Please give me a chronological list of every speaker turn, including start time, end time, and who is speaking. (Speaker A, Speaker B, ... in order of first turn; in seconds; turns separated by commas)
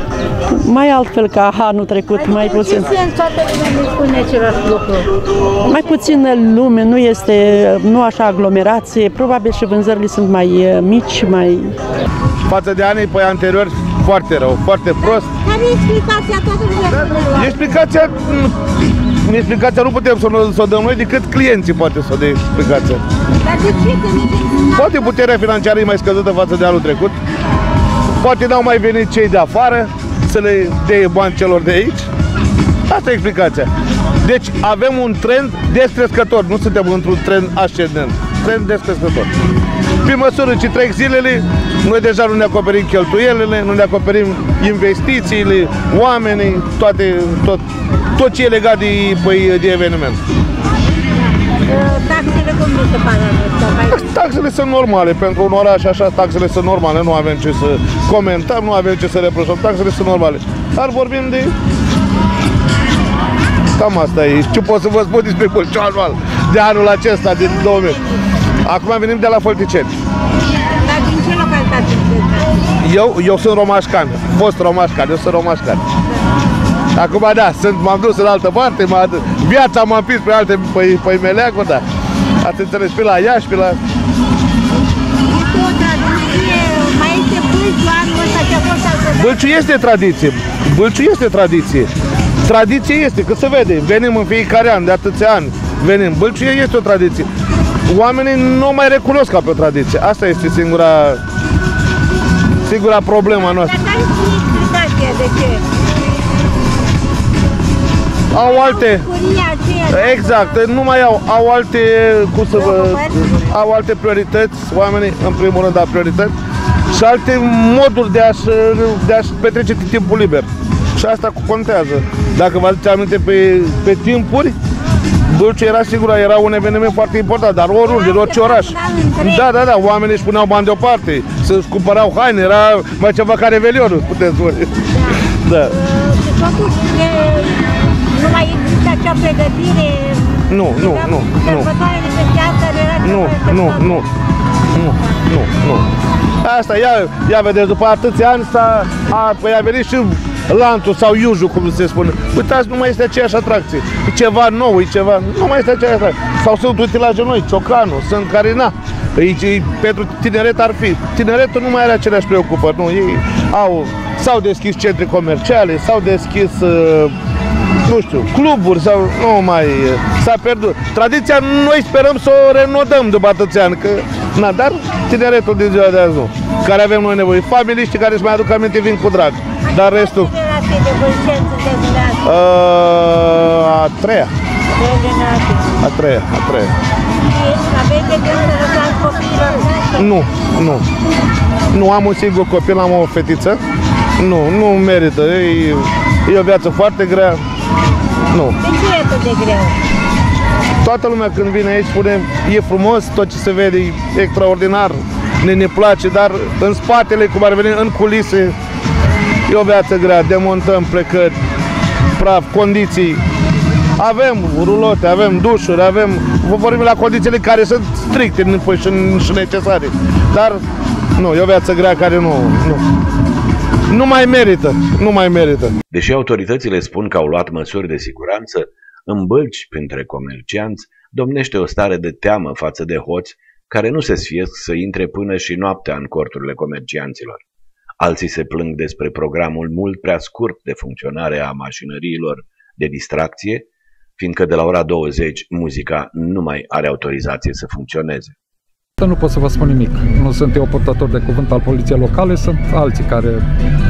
Speaker A: 0.5-2.9, Speaker B: 2.1-5.1, Speaker A: 5.6-11.7, Speaker C: 12.4-15.2, Speaker B: 15.0-17.8, Speaker C: 17.1-18.5, Speaker C: 19.2-23.0, Speaker B: 23.4-25.0, Speaker C: 24.8-27.1, Speaker C: 28.2-32.1, Speaker C: 32.9-33.7, Speaker C: 34.2-39.3, Speaker C: 40.0-47.6, Speaker C: 48.2-50.2, Speaker B: 51.7-54.3, Speaker C: 53.9-61.5, Speaker C: 63.8-68.0, Speaker B: 67.4-68.2, Speaker C: 68.6-69.9, Speaker B: 70.8-72.6, Speaker C: 72.8-75.8, Speaker C: 77.0-81.8, Speaker C: 82.4-83.8, Speaker B: 85.3-89.5, Speaker C: 89.2-91.9, Speaker C: 92.4-97.3, Speaker C: 97.9-101.2, Speaker C: 102.7-103.7, Speaker B: 103.1-105.6, Speaker B: 108.3-110.8, Speaker C: 108.3-109.1, Speaker C: 109.9-116.3, Speaker B: 112.5-113.3, Speaker C: 116.9-124.5, Speaker C: 125.3-134.7, Speaker B: 127.8-129.5, Speaker B: 134.9-144.0, Speaker C: 135.4-135.7, Speaker C: 140.5-141.7, Speaker C: 143.0-144.0, Speaker C: 144.7-145.8, Speaker C: 146.4-167.1, Speaker C: 167.8-180.3, Speaker B: 179.6-182.3, Speaker C: 182.2-184.3, Speaker B: 184.7-185.8, Speaker C: 185.8-186.7, Speaker B: 187.2-190.2, Speaker C: 190.0-190.8, Speaker C: 191.7-193.6, Speaker C: 194.2-197.4, Speaker B: 198.6-199.8, Speaker C: 200.8-208.5, Speaker C: 209.5-211.3, Speaker C: 212.2-213.2, Speaker C: 214.0-220.6, Speaker C: 221.2-222.8, Speaker C: 223.9-225.7, Speaker D: 225.9-237.4, Speaker D: 238.0-248.3, Speaker E: 249.0-253.4